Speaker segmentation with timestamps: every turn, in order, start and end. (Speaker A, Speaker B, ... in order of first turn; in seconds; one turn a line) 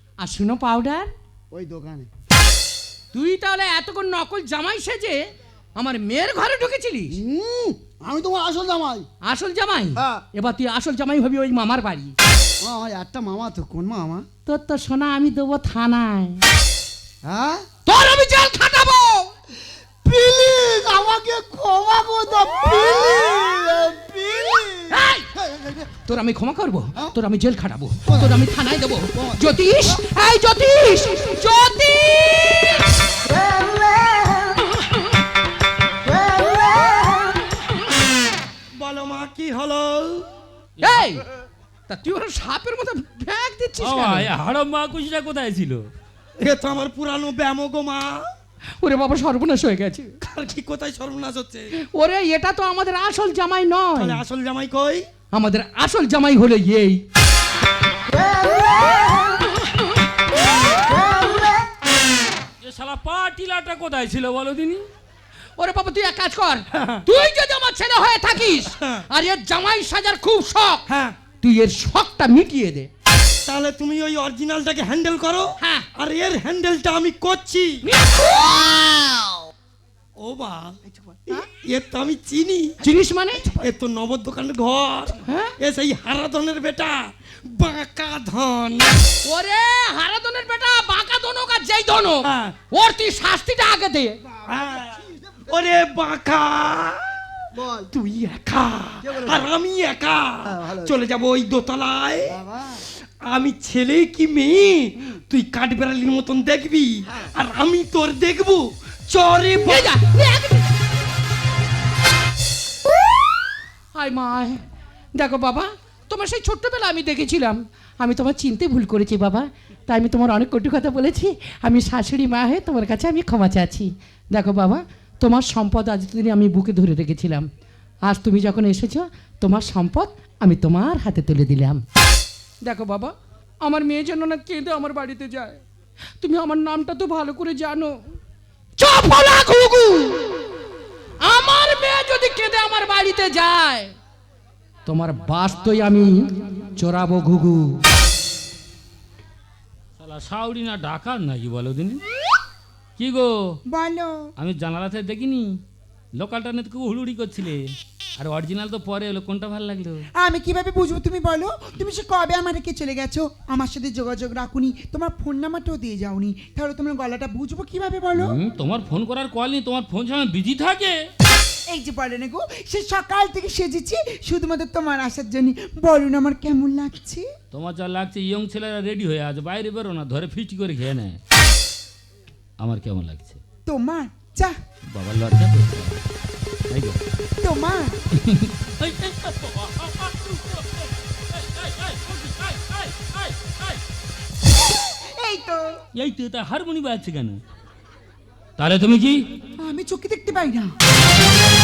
Speaker A: 0.2-1.1
Speaker B: 1.5-2.1
Speaker A: 3.1-5.2
Speaker A: 5.8-7.2
Speaker B: 7.1-9.1
Speaker A: 9.2-12.2
Speaker B: 10.0-10.2
Speaker B: 12.6-14.3
Speaker A: 14.5-16.4
Speaker B: 17.2-17.7
Speaker A: 17.9-19.3
Speaker B: 20.0-26.0
Speaker A: 24.9-25.3
Speaker A: 26.1-32.8
Speaker B: 28.1-28.4
Speaker B: 29.1-29.5
Speaker C: 38.8-40.3
Speaker D: 40.8-41.1
Speaker A: 40.8-41.2
Speaker A: 41.9-44.3
Speaker D: 43.8-45.9
Speaker C: 46.4-48.2
Speaker A: 48.8-50.1
Speaker C: 50.2-51.7
Speaker A: 51.9-54.2
Speaker C: 54.0-55.1
Speaker A: 55.3-57.0
Speaker D: 62.6-64.9
Speaker A: 65.6-70.8
Speaker C: 66.7-67.0
Speaker C: 70.9-71.2
Speaker A: 71.4-72.9
Speaker C: 73.5-77.8
Speaker A: 75.6-75.9
Speaker A: 77.8-78.6
Speaker C: 80.2-80.8
Speaker C: 81.4-82.7
Speaker A: 82.8-83.4
Speaker C: 83.4-89.0
Speaker A: 85.3-85.5
Speaker A: 89.2-94.2
Speaker C: 92.3-92.5
Speaker B: 94.5-95.6
Speaker C: 94.5-97.0
Speaker B: 97.5-97.9
Speaker C: 97.9-102.3
Speaker B: 99.0-99.5
Speaker B: 100.5-101.0
Speaker B: 102.3-102.8
Speaker C: 103.2-110.0
Speaker A: 109.6-110.7
Speaker A: 114.0-114.6
Speaker A: 115.2-127.5
Speaker A: 128.1-131.8
Speaker A: 132.6-133.1
Speaker A: 133.6-135.6
Speaker A: 136.2-138.0
Speaker A: 138.8-140.2
Speaker A: 141.2-143.9
Speaker A: 144.9-147.8
Speaker D: 150.0-152.0
Speaker D: 153.0-153.6
Speaker E: 153.7-154.3
Speaker D: 154.4-155.6
Speaker D: 156.2-157.6
Speaker D: 158.2-160.1
Speaker E: 160.2-168.4
Speaker D: 168.2-171.0
Speaker E: 171.7-177.3
Speaker D: 177.5-181.2
Speaker D: 182.6-183.4
Speaker E: 183.7-184.6
Speaker D: 184.9-186.0
Speaker D: 186.7-187.0
Speaker E: 187.4-187.9
Speaker D: 188.2-193.8
Speaker E: 195.2-195.8
Speaker D: 195.9-197.4
Speaker D: 198.6-199.2
Speaker E: 199.6-200.7